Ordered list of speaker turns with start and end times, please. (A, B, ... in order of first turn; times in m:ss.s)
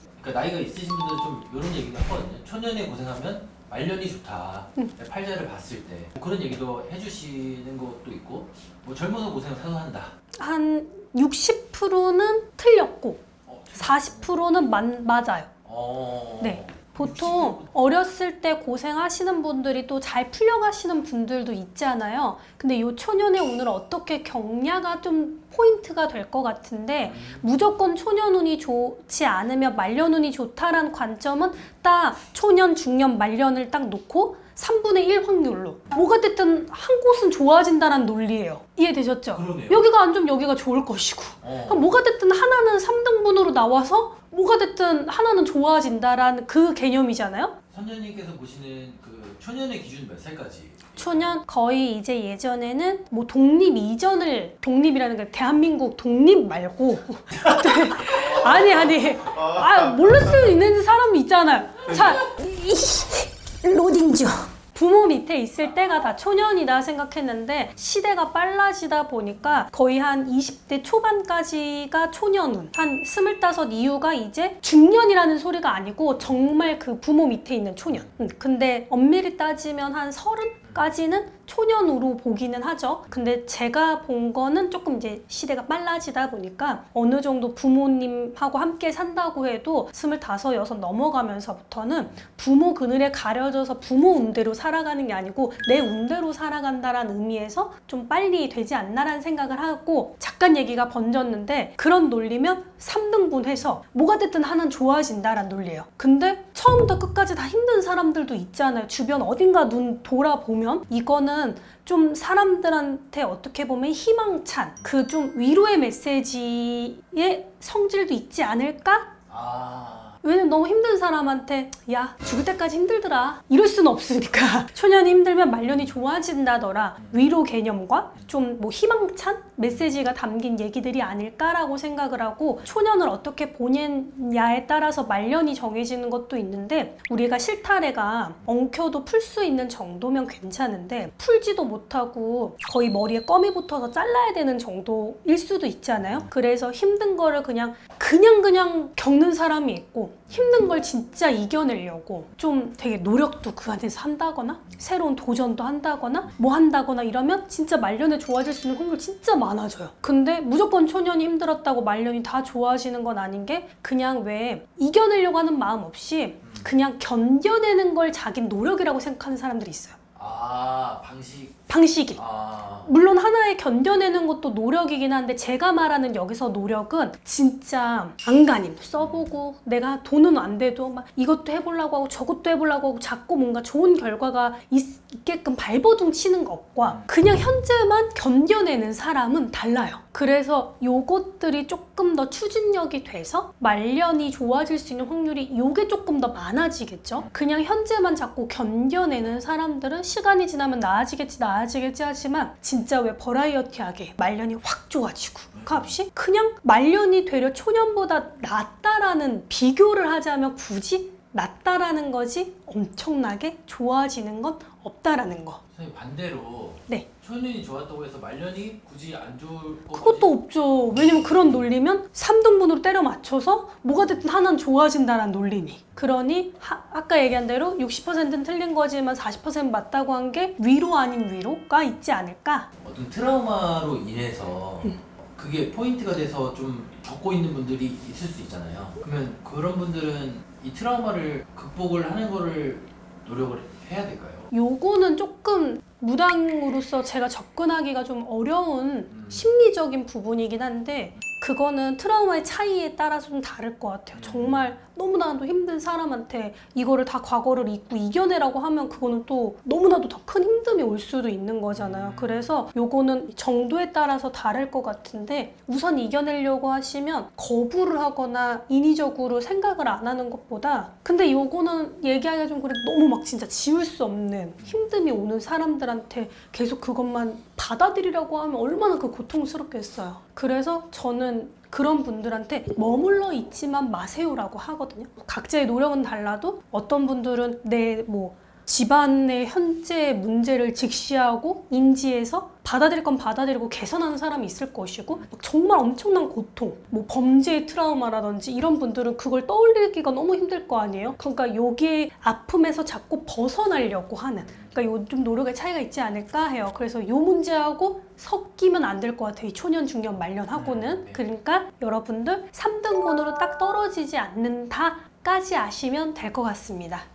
0:00.2-0:10.1 A
0:10.4-0:15.5 B
0:13.5-0:14.4 A
0:15.7-0:17.8 A
0:16.4-0:47.6 B
0:27.0-0:27.5 A
0:39.3-0:39.8 A
0:41.4-0:41.9 A
0:47.7-0:51.3 A
0:51.0-1:59.2 B
1:20.6-1:20.9 A
1:59.3-2:00.2 A
2:00.2-2:50.0 B
2:26.0-2:26.3 A
2:30.3-2:30.6 A
2:46.4-2:46.8 A
2:50.2-2:51.6 A
2:51.7-2:52.2 B
2:52.2-2:52.9 A
2:52.8-3:35.6 B
2:59.0-2:59.3 A
3:06.8-3:07.2 A
3:25.5-3:26.0 A
3:35.7-3:40.3 A
3:39.9-3:52.7 B
3:40.9-3:41.6 A
3:52.8-4:04.5 A
4:04.5-5:17.1 B
4:09.1-4:09.5 A
4:14.1-4:14.7 A
4:21.7-4:22.5 A
4:34.6-4:34.9 A
5:04.5-5:04.8 A
5:10.5-5:11.2 A